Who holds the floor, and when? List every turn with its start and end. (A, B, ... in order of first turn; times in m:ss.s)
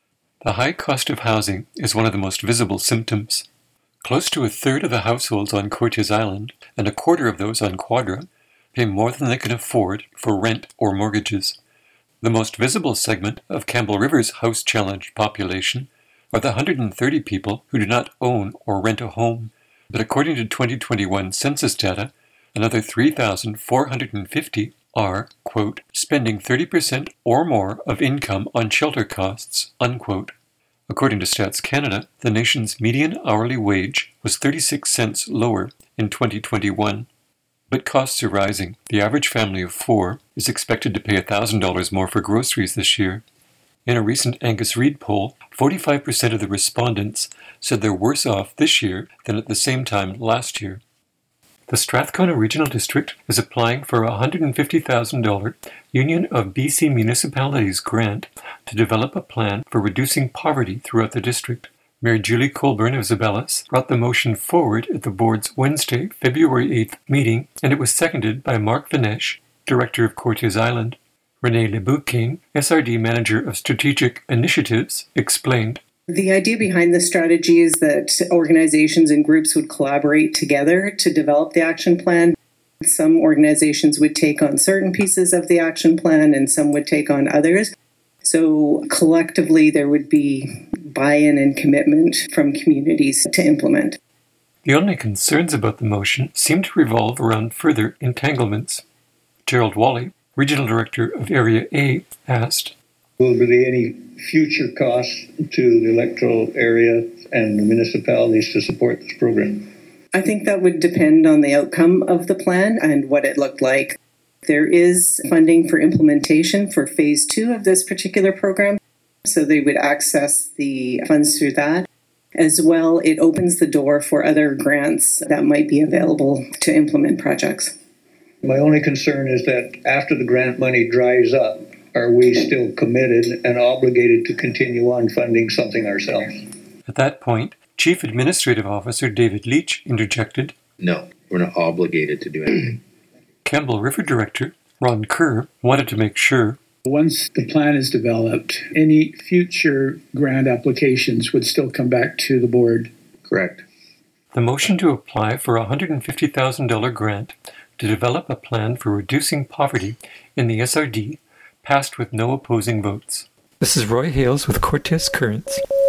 0:00.4-0:03.5 A
0:04.0-0:11.6 A
0:12.2-0:30.3 A
0:30.9-0:37.1 A
0:37.7-0:43.2 A
0:43.8-0:50.8 A
0:51.7-1:15.8 A
1:16.1-1:27.7 B
1:28.2-1:34.0 B
1:34.6-1:38.8 A
1:39.4-1:42.7 A
1:43.2-1:49.7 C
1:50.1-2:07.7 B
2:08.4-2:16.5 C
2:16.9-2:20.5 A
2:20.8-2:22.8 D
2:23.4-2:26.6 A
2:26.8-2:32.9 E
2:33.3-2:33.6 D
2:34.3-2:45.6 A